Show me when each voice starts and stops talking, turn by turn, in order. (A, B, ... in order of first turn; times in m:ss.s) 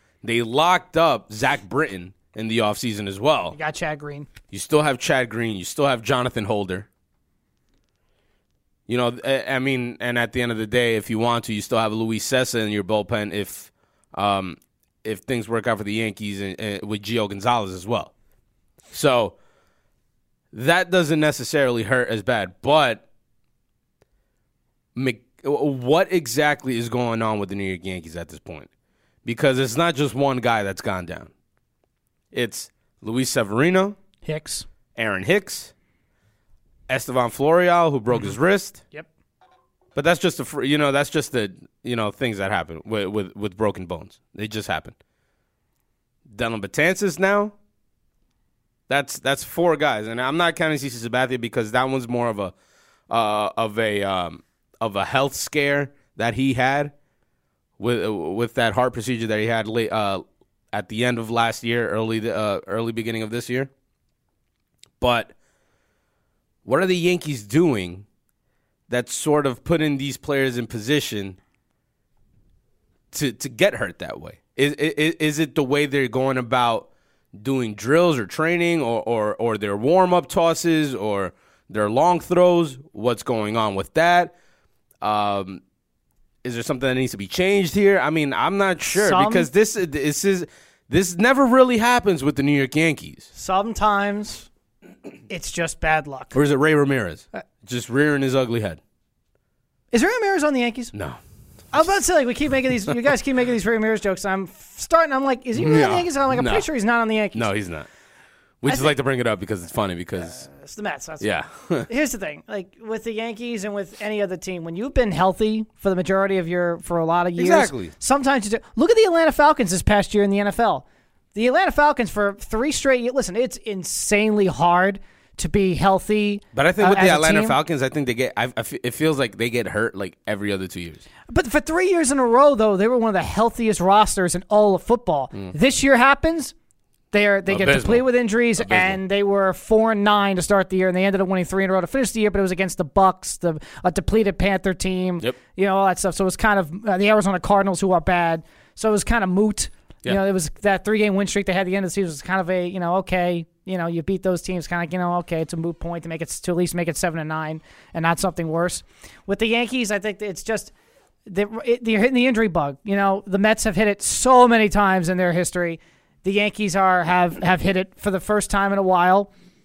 0:00.2-0:03.6 A
0:03.5-0:04.3 B
0:04.5-0:06.9 A
0:08.9-0:18.1 A
0:18.9-0:19.3 A
0:20.5-0:23.0 A
0:24.9-0:28.7 A
0:29.2-0:31.3 A
0:32.3-0:34.0 A
0:34.2-0:34.7 B
0:34.9-0:35.7 A
0:36.9-0:38.8 A
0:39.9-0:45.0 A
0:46.3-0:47.5 A
0:48.9-0:52.5 A
0:53.1-0:56.9 A
0:57.8-1:03.7 A
1:05.0-1:05.3 A
1:06.6-1:08.0 A
1:08.9-1:11.4 A
1:13.1-1:24.3 A
1:25.0-1:25.6 A
1:26.4-1:33.3 A
1:28.9-1:29.5 B
1:33.3-1:34.5 B
1:35.3-1:36.4 B
1:36.3-1:38.8 A
1:39.9-1:40.9 B
1:40.9-1:41.2 A
1:41.7-1:47.5 B
1:45.5-1:46.7 A
1:47.3-1:47.9 A
1:48.6-1:50.4 A
1:48.7-1:48.9 B
1:50.2-1:51.3 B
1:51.2-1:51.9 A
1:51.9-2:07.6 B
1:57.4-1:57.9 A
2:06.5-2:11.0 A
2:11.3-2:16.5 B
2:17.1-2:40.7 B
2:17.5-2:19.0 A
2:41.2-2:49.3 B